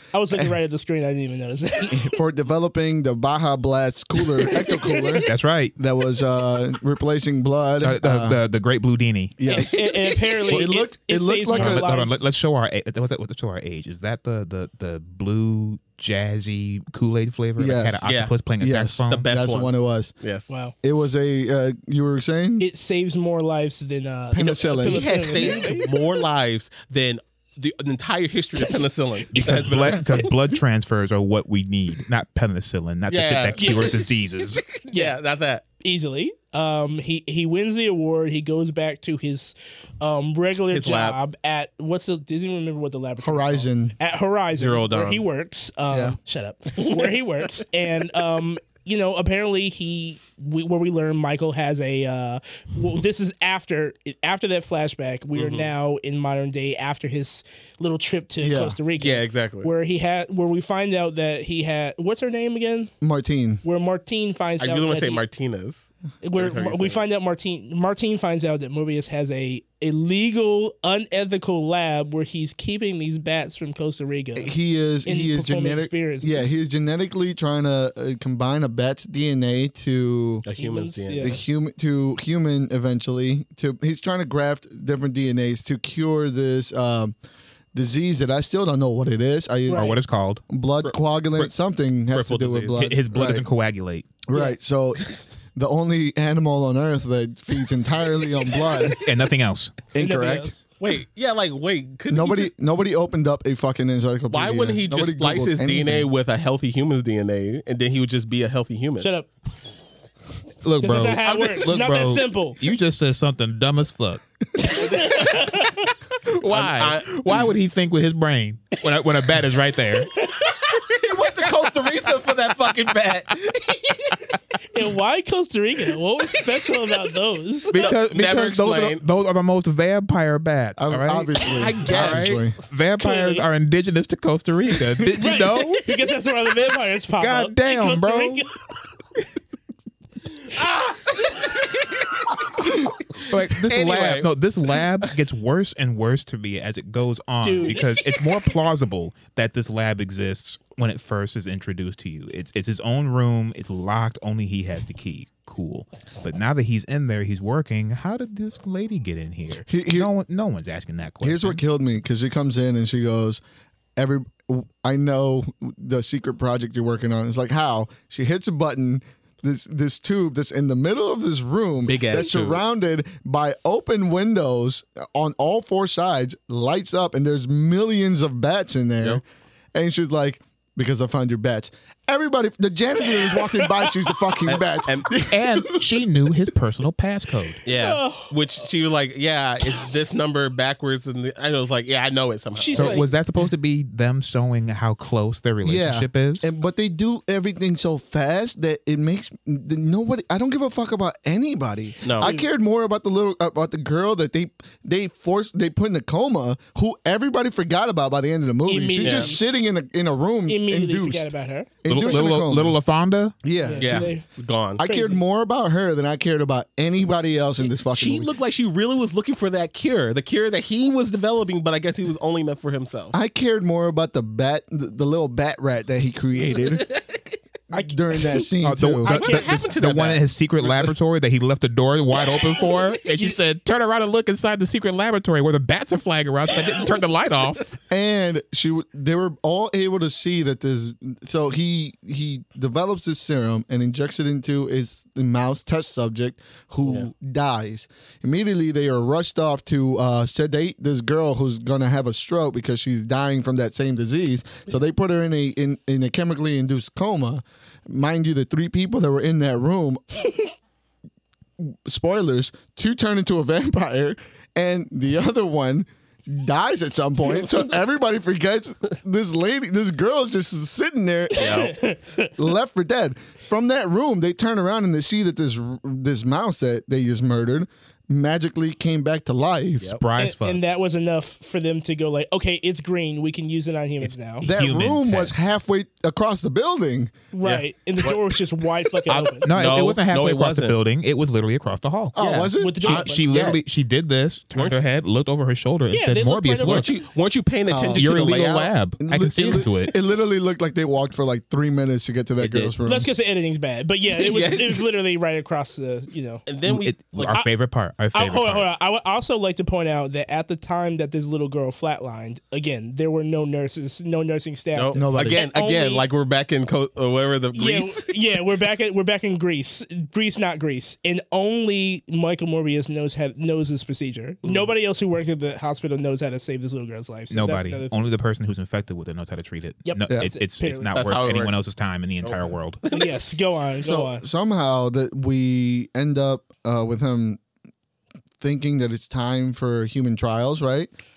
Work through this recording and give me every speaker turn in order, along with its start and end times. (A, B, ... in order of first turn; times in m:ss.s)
0:00.1-0:02.2 A
0:01.9-0:08.4 B
0:04.4-0:05.3 A
0:05.2-0:05.8 C
0:07.8-0:09.4 C
0:09.4-0:11.9 B
0:09.5-0:12.2 A
0:11.5-0:19.2 C
0:17.6-0:18.0 B
0:18.0-0:18.4 D
0:18.6-0:20.1 B
0:19.1-0:20.5 D
0:20.5-0:20.7 A
0:20.8-0:22.7 B
0:22.6-0:25.9 A
0:24.3-0:25.7 B
0:24.8-0:30.6 D
0:29.3-0:34.6 C
0:33.1-0:35.6 D
0:33.5-0:34.0 A
0:34.9-0:35.2 A
0:35.8-1:02.9 A
0:40.7-0:41.2 D
0:43.2-0:43.9 B
0:44.5-0:45.2 D
0:45.9-0:46.2 B
0:46.8-0:47.1 D
0:55.4-0:55.7 D
0:58.4-0:58.8 B
0:59.0-0:59.7 D
1:03.0-1:03.6 B
1:03.6-1:05.2 A
1:04.6-1:07.0 D
1:06.2-1:14.5 A
1:14.4-1:20.4 B
1:15.0-1:16.6 A
1:20.4-1:21.4 D
1:20.6-1:21.4 A
1:21.2-1:27.1 B
1:27.7-1:29.9 B
1:29.7-1:30.0 A
1:29.7-1:31.5 C
1:30.5-1:33.4 B
1:32.1-1:34.2 C
1:32.2-1:32.8 D
1:34.2-1:39.0 B
1:38.9-1:39.8 C
1:39.9-1:40.5 B
1:40.0-1:40.6 A
1:40.8-1:42.5 D
1:42.1-1:46.1 B
1:44.3-1:49.1 D
1:49.0-1:49.3 A
1:50.6-1:54.2 C
1:50.8-1:52.6 A
1:51.2-1:51.7 D
1:54.6-1:55.9 A
1:54.8-1:55.4 D
1:56.4-1:57.5 D
1:56.4-2:00.3 C
2:00.2-2:04.1 D
2:04.7-2:07.9 A
2:07.7-2:16.0 C
2:07.7-2:09.0 D
2:10.8-2:12.6 B
2:11.4-2:12.6 D
2:13.0-2:13.4 A
2:15.1-2:18.6 A
2:17.2-2:18.4 C
2:20.4-2:25.1 D
2:23.3-2:41.6 C
2:27.4-2:27.8 A
2:39.7-2:40.1 B
2:41.2-2:43.4 B
2:44.0-2:59.2 B
2:51.9-2:52.6 D
2:59.7-3:05.9 B
3:03.6-3:03.8 A
3:04.4-3:05.2 D
3:05.3-3:07.6 C
3:07.6-3:13.0 D
3:07.7-3:08.3 A
3:12.6-3:13.1 A
3:12.7-3:16.5 C
3:15.6-3:31.3 B
3:22.0-3:22.3 D
3:22.2-3:22.5 A
3:28.7-3:29.4 A
3:29.0-3:29.3 D
3:30.5-3:31.7 A
3:31.8-3:32.8 B
3:31.9-3:33.4 C
3:33.4-3:34.1 B
3:33.6-3:34.2 A
3:33.8-3:34.8 D
3:34.8-3:38.3 B
3:34.8-3:35.2 A
3:37.8-3:43.2 D
3:43.1-3:46.9 B
3:46.8-3:47.2 D
3:47.7-3:48.2 A
3:47.7-3:49.3 B
3:48.6-3:57.8 C
3:49.0-3:51.0 D
3:52.2-3:53.2 D
3:57.9-4:20.2 B
4:21.6-4:31.5 B
4:31.3-4:32.3 A
4:31.4-4:31.7 D
4:32.4-4:40.0 B
4:40.0-4:40.6 C
4:40.2-4:44.4 A
4:44.0-4:45.4 C
4:44.4-4:47.1 B
4:47.3-4:49.5 A
4:47.4-4:48.3 D
4:49.1-4:50.8 D
4:49.4-4:52.2 C
4:52.1-4:52.9 B
4:52.2-4:53.6 D
4:52.6-4:53.3 A
4:52.8-4:56.9 C
4:54.5-4:54.8 D
4:55.9-4:56.9 A
4:56.6-4:58.8 D
4:57.7-4:58.2 B
4:57.9-4:59.9 C
4:59.0-5:03.1 B
5:02.4-5:02.7 D
5:02.8-5:06.4 A
5:04.1-5:04.9 D
5:06.5-5:07.3 D
5:06.6-5:08.7 C
5:07.2-5:07.5 A
5:08.1-5:16.0 A
5:14.7-5:18.2 D
5:14.9-5:15.4 B
5:17.5-5:27.9 A
5:24.4-5:24.7 D
5:27.3-5:32.8 C
5:29.8-5:31.0 A
5:30.9-5:31.6 D
5:32.2-5:33.3 D
5:32.9-5:34.2 A
5:33.8-5:37.4 B
5:38.4-5:40.9 B